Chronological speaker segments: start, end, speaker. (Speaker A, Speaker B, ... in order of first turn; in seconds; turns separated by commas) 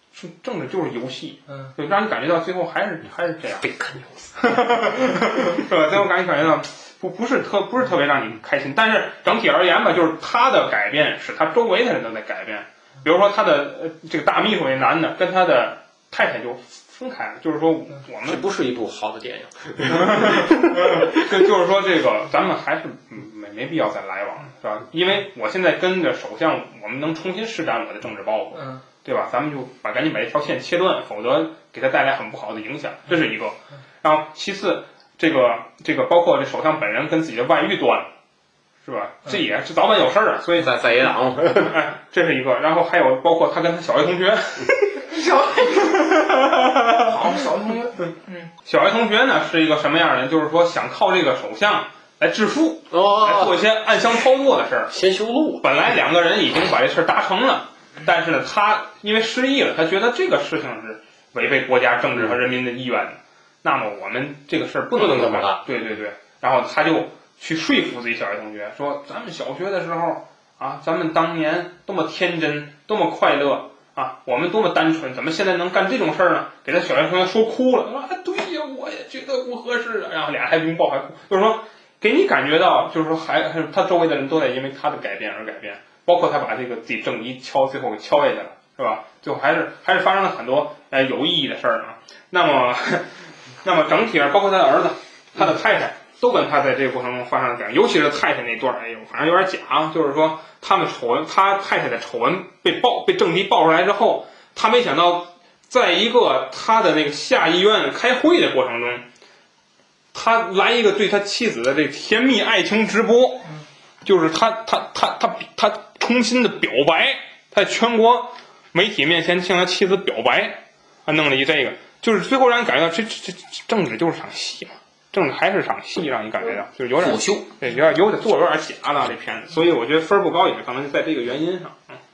Speaker A: 0.1-3.6, Speaker B: 3.6-4.7, Speaker A: 4.4-18.4, Speaker B: 18.2-21.2, Speaker A: 19.9-38.1, Speaker C: 28.6-28.8, Speaker A: 38.8-40.8, Speaker B: 40.6-41.8, Speaker A: 41.6-45.0, Speaker C: 45.1-48.5, Speaker A: 45.7-47.3, Speaker A: 48.6-54.9, Speaker B: 52.9-53.5, Speaker B: 54.9-55.6, Speaker A: 55.6-93.1, Speaker B: 64.9-65.6, Speaker A: 93.6-109.0, Speaker A: 110.1-113.5, Speaker A: 114.0-132.0, Speaker B: 127.0-127.5